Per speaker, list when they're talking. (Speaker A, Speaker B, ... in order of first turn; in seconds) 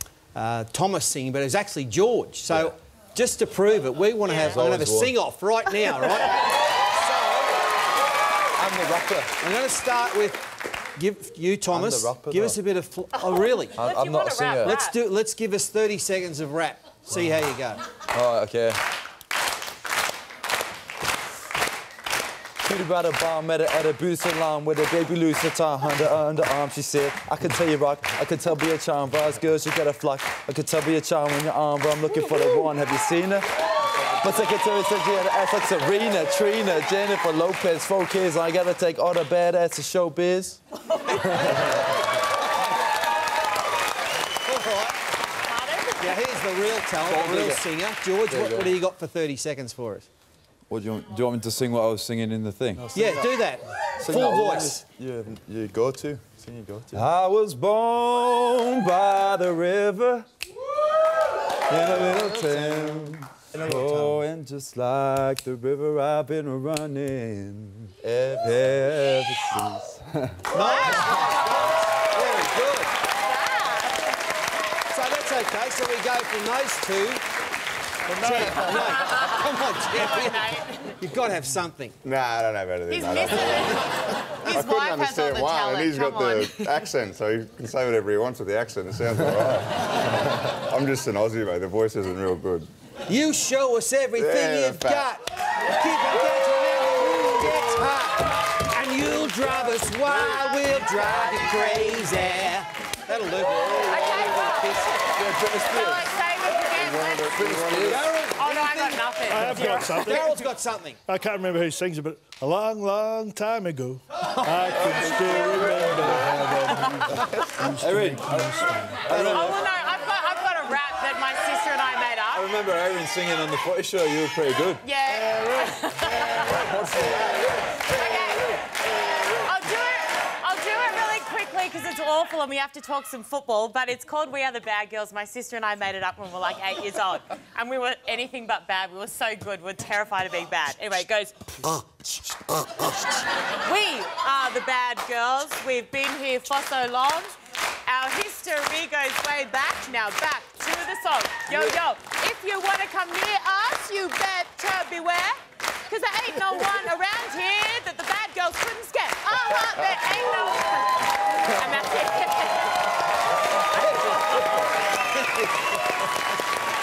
Speaker A: 0.3-7.7, 9.4-13.9, 14.6-17.8, 41.1-42.6, 44.4-45.0, 46.0-50.1, 52.9-54.9, 70.5-72.9, 74.9-77.2, 78.1-82.0, 93.1-105.2, 107.7-108.8, 109.9-111.0, 163.8-164.4, 165.1-165.8
Speaker B: 4.2-4.6, 13.3-14.9, 45.5-46.4, 70.5-71.4, 73.2-74.2, 80.0-80.9, 82.9-86.6, 103.8-107.6, 108.1-110.3, 116.8-117.4, 119.1-122.5, 124.8-127.2, 127.9-141.6, 143.6-147.3, 147.9-162.8, 163.7-164.4
Speaker C: 4.5-5.1, 8.6-9.4, 11.7-12.6, 13.8-14.8, 18.1-18.8, 22.6-40.6, 41.4-41.8, 47.0-47.6, 48.3-48.8, 50.7-53.3, 54.0-60.3, 61.7-70.5, 105.2-106.0, 107.0-108.1, 114.7-119.6, 122.3-124.8, 126.6-127.3
Speaker D: 78.1-78.9, 109.3-110.5, 111.1-119.2
Speaker E: 82.0-83.8, 84.5-92.7, 94.2-95.1, 107.3-108.0